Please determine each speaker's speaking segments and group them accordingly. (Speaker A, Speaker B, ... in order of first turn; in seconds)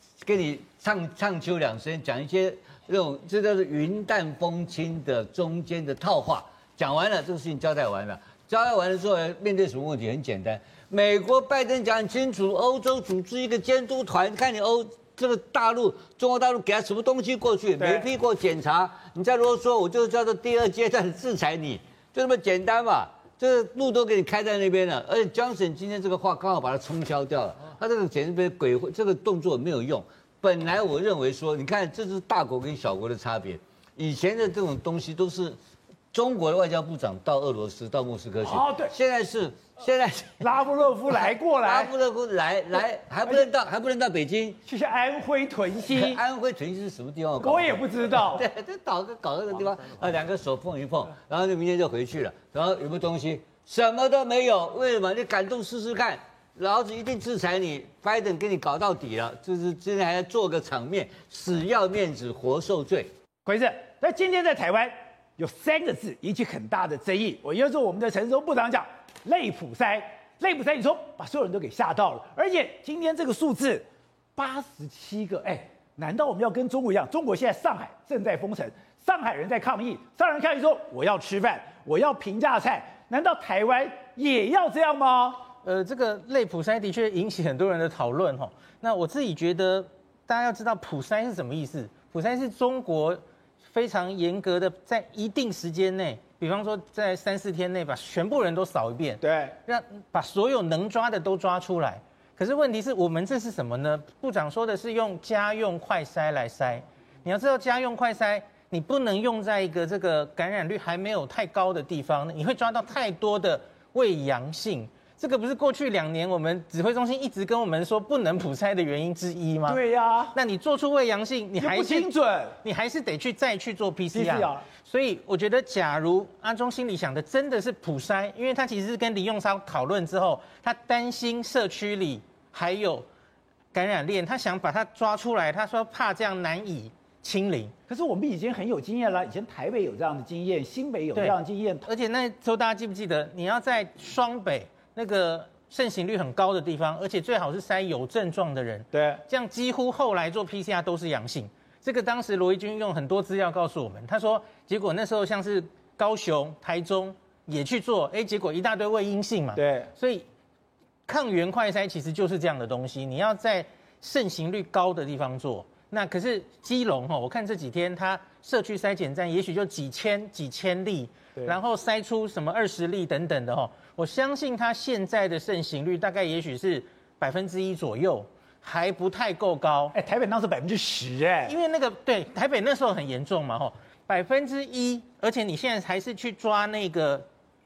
Speaker A: 0.2-35.6, 36.1-40.5, 41.1-44.6, 45.9-63.1
Speaker B: 17.8-18.1, 38.4-38.9, 40.4-41.9, 44.6-46.2, 47.4-48.4, 63.4-73.8, 74.3-85.4, 99.2-99.5, 119.7-120.3, 121.6-122.6, 124.1-124.7, 137.9-141.9, 148.9-149.2, 159.5-159.9, 179.9-181.6
Speaker C: 85.6-119.8, 120.3-122.1, 122.6-133.1, 133.7-137.7, 141.2-160.2, 161.1-179.9, 181.5-187.2